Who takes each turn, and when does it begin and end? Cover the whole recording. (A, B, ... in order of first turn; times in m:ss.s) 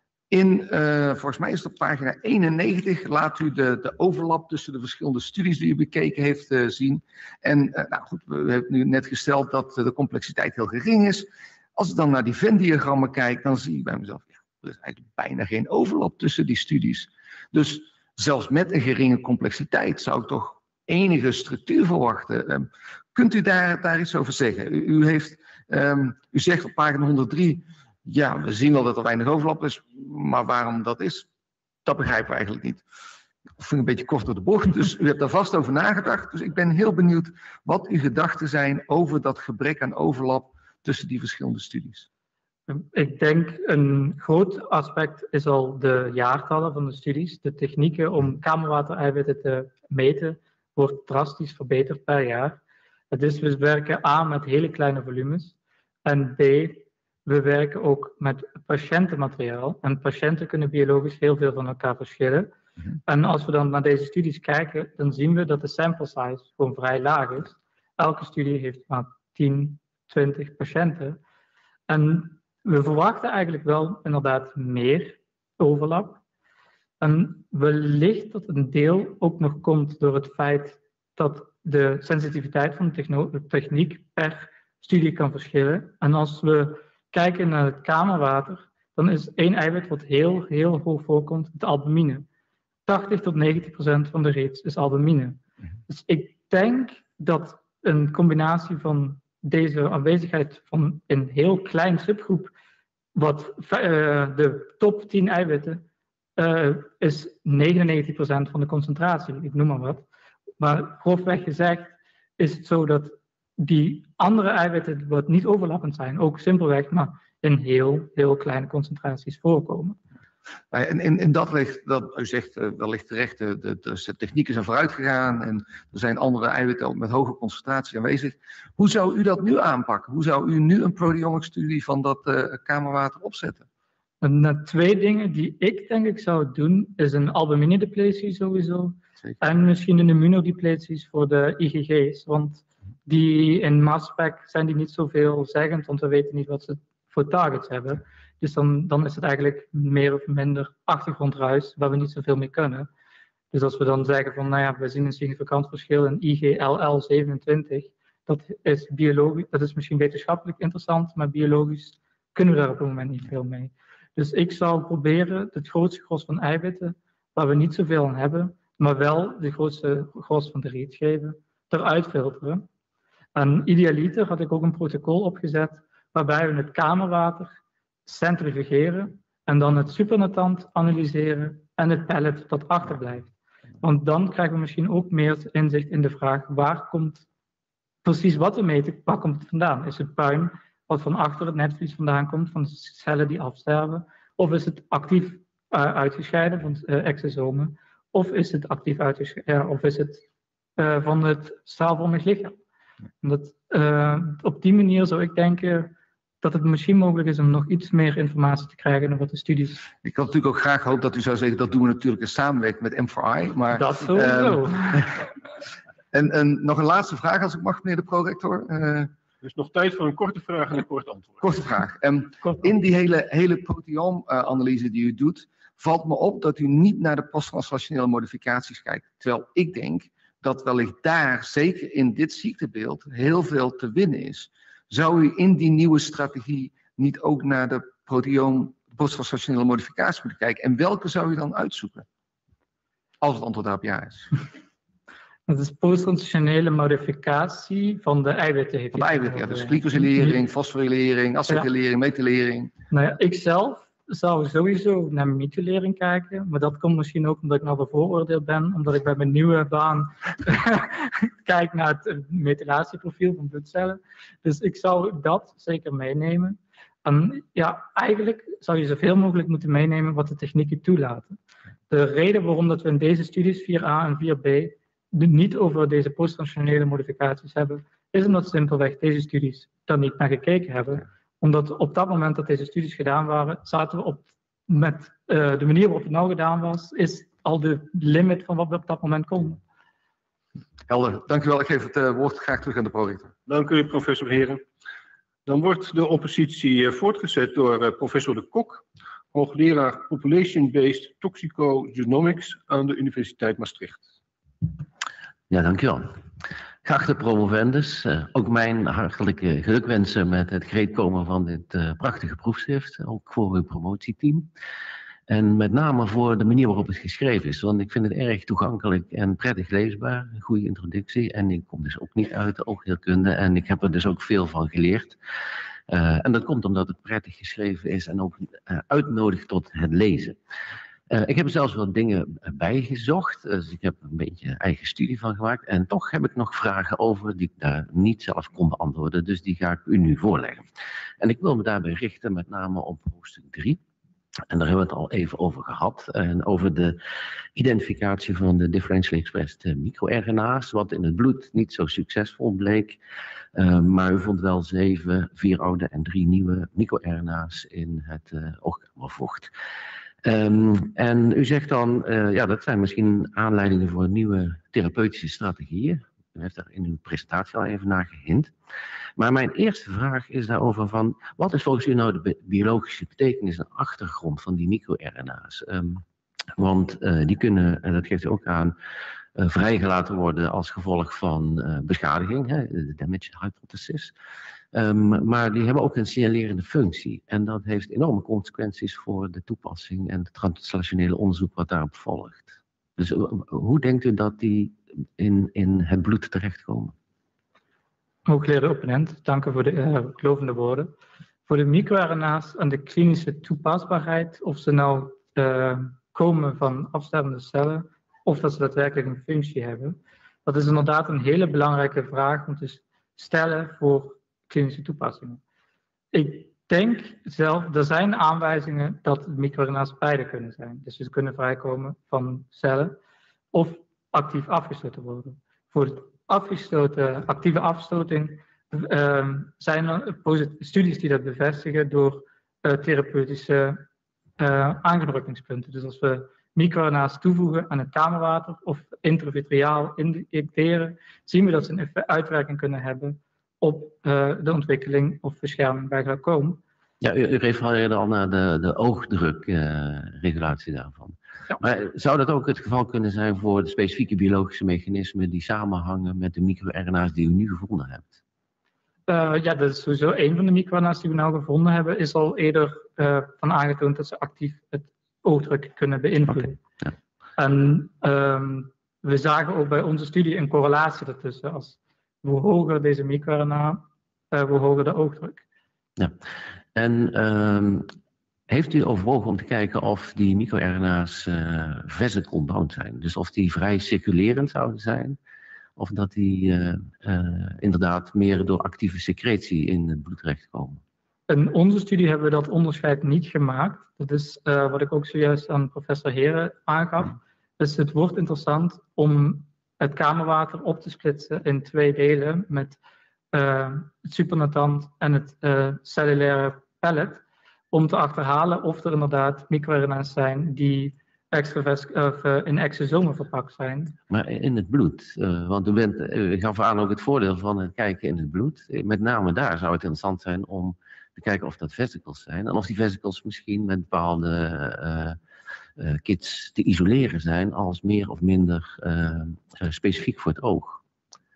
0:00.3-0:31.3 A
0:31.8-0:32.8 A
0:33.6-0:42.0 A
0:42.7-0:52.6 B
0:53.1-1:02.5 B
1:03.0-1:11.2 B
1:11.9-1:16.2 B
1:17.0-1:32.3 B
1:32.8-1:42.5 B
1:43.1-1:45.8 B
1:46.4-1:50.0 B
1:50.6-2:00.0 B
2:00.7-2:13.6 A
2:14.2-2:32.9 B
2:33.5-2:52.6 B
2:53.3-2:57.5 B
2:58.0-3:07.2 B
3:08.0-3:20.2 B
3:20.8-3:22.6 B
3:23.2-3:29.8 B
3:30.0-3:35.2 A
3:33.7-3:35.0 B
3:36.1-3:39.1 A
3:39.4-3:41.5 C
3:41.4-4:02.0 A
4:03.2-4:04.3 A
4:05.5-4:10.4 B
4:08.9-4:12.7 A
4:12.9-4:31.4 B
4:31.9-4:49.6 B
4:50.9-4:53.3 A
4:53.5-4:54.6 C
4:55.4-5:04.0 C
5:05.5-5:06.2 D
5:06.8-5:14.5 D
5:15.3-5:25.2 D
5:25.9-5:30.4 D
5:31.1-5:40.7 D
5:41.2-5:43.8 D
5:44.5-5:47.0 D
5:47.5-5:53.0 D
5:53.5-5:59.5 D
6:00.2-6:08.5 D
6:09.2-6:16.0 D
6:16.6-6:18.7 D
6:19.4-6:24.1 D
6:24.7-6:36.9 D
6:38.3-6:40.9 B
6:41.5-6:55.4 B
6:56.1-7:03.0 B
7:03.5-7:13.8 B
7:14.4-7:26.6 B
7:27.0-7:38.2 D
7:39.1-7:46.6 B
7:46.3-7:46.9 D
7:47.4-7:55.4 B
7:56.8-7:57.9 D
7:58.5-8:05.2 D
8:05.8-8:10.8 D
8:11.3-8:22.8 B
8:23.3-8:33.9 B
8:34.1-8:45.2 D
8:45.8-8:50.8 D